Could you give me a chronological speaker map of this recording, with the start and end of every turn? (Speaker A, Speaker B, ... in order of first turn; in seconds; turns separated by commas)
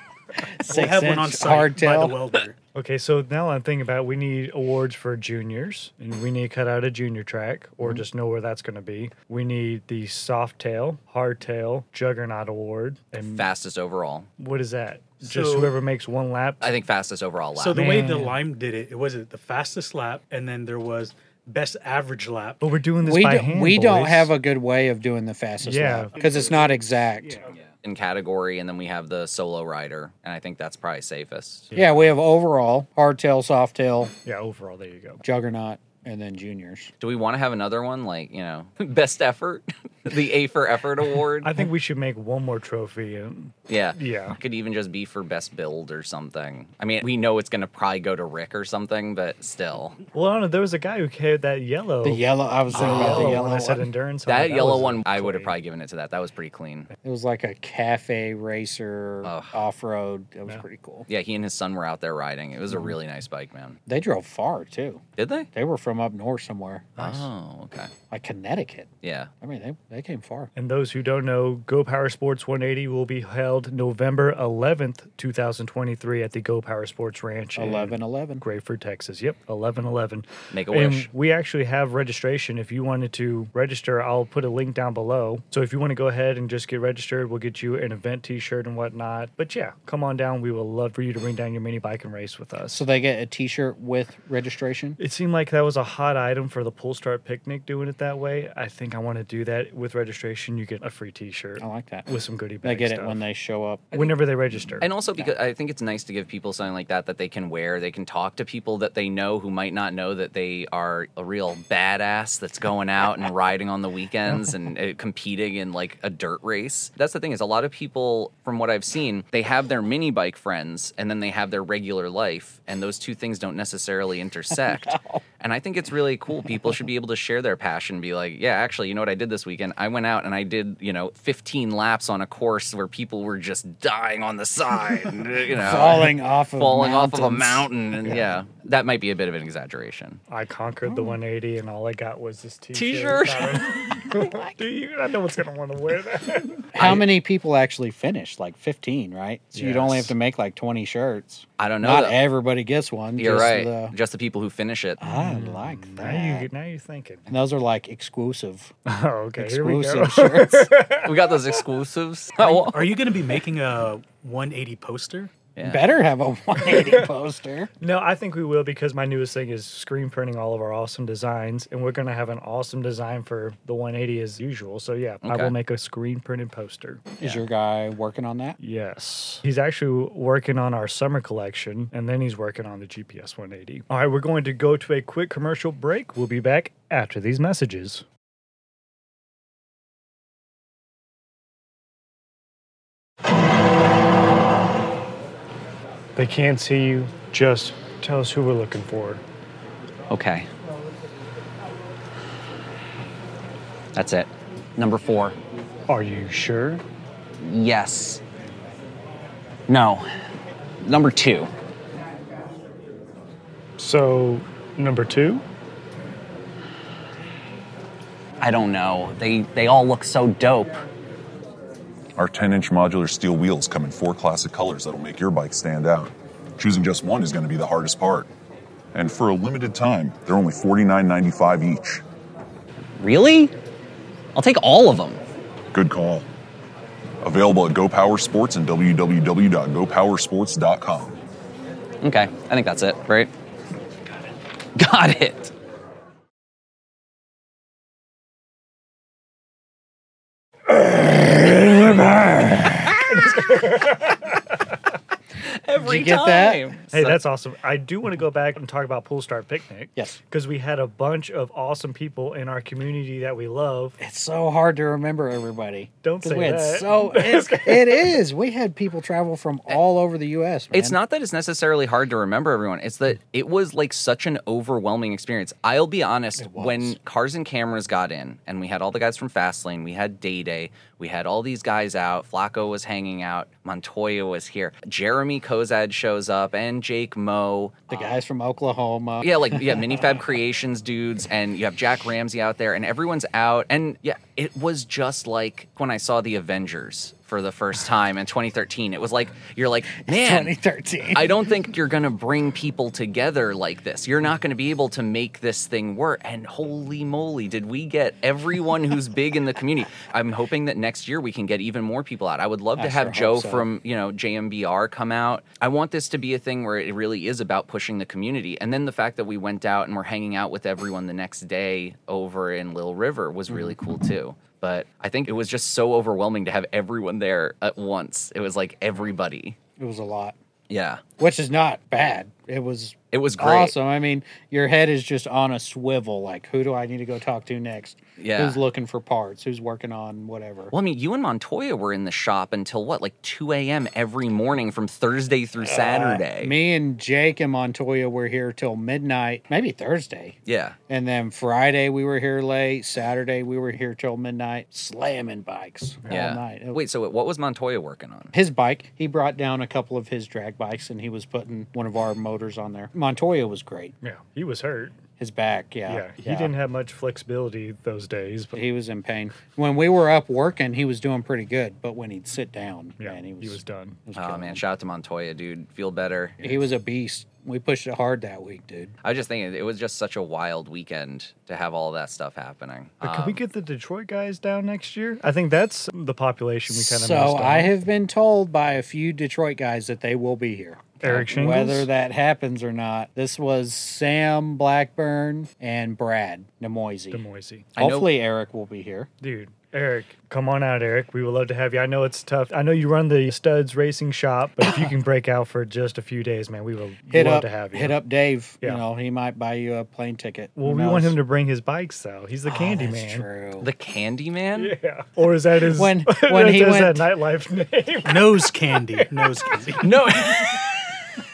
Speaker A: 0.4-2.2, Speaker B: 0.7-2.5, Speaker C: 2.7-13.5, Speaker D: 13.2-14.3, Speaker C: 14.4-16.7, Speaker B: 15.2-15.8, Speaker D: 16.6-18.0, Speaker B: 17.6-22.6, Speaker C: 17.7-18.4, Speaker C: 22.6-24.3, Speaker A: 23.0-27.4, Speaker C: 25.6-26.3, Speaker B: 26.1-27.6, Speaker D: 27.5-31.7, Speaker C: 31.7-32.1, Speaker A: 31.7-34.1, Speaker C: 34.2-35.2, Speaker A: 35.2-36.9, Speaker D: 37.0-41.5, Speaker C: 41.4-44.4, Speaker D: 43.7-50.0, Speaker C: 50.1-55.5, Speaker A: 52.0-53.9, Speaker D: 52.7-53.4, Speaker D: 54.3-56.9, Speaker A: 57.0-61.1, Speaker D: 59.2-59.6, Speaker D: 61.1-63.8, Speaker A: 63.9-67.2, Speaker D: 65.2-65.5, Speaker D: 67.0-67.9, Speaker A: 68.1-68.9, Speaker D: 69.0-69.3, Speaker A: 69.4-70.5, Speaker C: 70.5-92.8, Speaker A: 77.6-78.4, Speaker D: 80.5-81.1, Speaker A: 92.7-95.0, Speaker C: 95.0-103.2, Speaker A: 101.6-102.1, Speaker A: 102.6-104.1, Speaker C: 103.9-104.9, Speaker D: 104.8-140.2, Speaker A: 124.5-125.2, Speaker A: 126.5-126.7, Speaker A: 135.5-138.2, Speaker C: 140.3-146.8, Speaker A: 140.9-141.2, Speaker D: 142.7-144.0, Speaker A: 144.1-144.4, Speaker A: 146.7-153.9, Speaker D: 146.8-147.1, Speaker C: 149.6-150.1, Speaker D: 151.6-152.2, Speaker D: 153.2-155.0, Speaker A: 155.0-156.5, Speaker C: 155.1-157.3, Speaker A: 157.3-158.7, Speaker C: 158.9-161.4, Speaker A: 159.4-160.7, Speaker D: 161.0-162.9, Speaker B: 162.7-165.3, Speaker D: 165.6-165.9, Speaker A: 165.6-167.7, Speaker C: 166.7-167.0, Speaker C: 167.8-177.1, Speaker D: 175.2-175.6, Speaker A: 177.2-178.6, Speaker C: 178.6-188.1, Speaker C: 196.2-199.2, Speaker D: 200.1-200.5, Speaker D: 203.9-205.4, Speaker C: 205.9-206.8, Speaker D: 207.4-208.2, Speaker D: 209.7-210.1, Speaker D: 210.8-211.5, Speaker C: 213.8-215.4, Speaker D: 218.4-220.8, Speaker E: 222.2-228.3, Speaker E: 228.9-232.0, Speaker D: 233.0-233.5, Speaker D: 234.3-235.2, Speaker E: 235.7-236.3, Speaker E: 237.2-241.2, Speaker D: 242.0-243.3, Speaker D: 244.8-245.5, Speaker D: 250.7-253.3, Speaker C: 253.1-254.5, Speaker D: 255.4-257.2, Speaker A: 255.8-256.7, Speaker C: 256.9-264.0, Speaker A: 264.0-271.0, Speaker C: 266.0-268.2, Speaker D: 270.7-288.1, Speaker A: 276.4-277.0, Speaker A: 287.9-290.1, Speaker D: 289.2-300.5, Speaker A: 300.1-301.5, Speaker D: 301.1-329.6, Speaker A: 312.8-313.7, Speaker A: 329.8-330.4, Speaker D: 330.7-331.0, Speaker A: 331.2-340.7, Speaker D: 333.1-333.8, Speaker D: 338.2-338.6, Speaker D: 340.7-346.5, Speaker A: 345.6-350.4, Speaker D: 350.5-350.8, Speaker A: 350.9-356.8, Speaker D: 356.1-358.3, Speaker A: 358.3-363.9, Speaker C: 364.0-365.0, Speaker A: 365.2-366.5, Speaker C: 365.9-368.6, Speaker A: 368.5-374.6, Speaker C: 373.0-374.0, Speaker D: 374.1-376.5, Speaker A: 376.4-378.9, Speaker D: 379.0-383.4, Speaker C: 383.0-387.7, Speaker A: 386.7-397.2, Speaker C: 391.0-391.9, Speaker C: 397.1-397.7, Speaker A: 397.8-399.1, Speaker D: 397.8-398.1, Speaker C: 399.2-408.0, Speaker A: 407.1-411.2, Speaker C: 410.6-413.3, Speaker A: 412.4-413.7, Speaker D: 413.6-414.7, Speaker C: 414.6-419.8, Speaker A: 415.6-417.1, Speaker B: 418.1-419.9, Speaker D: 419.8-420.9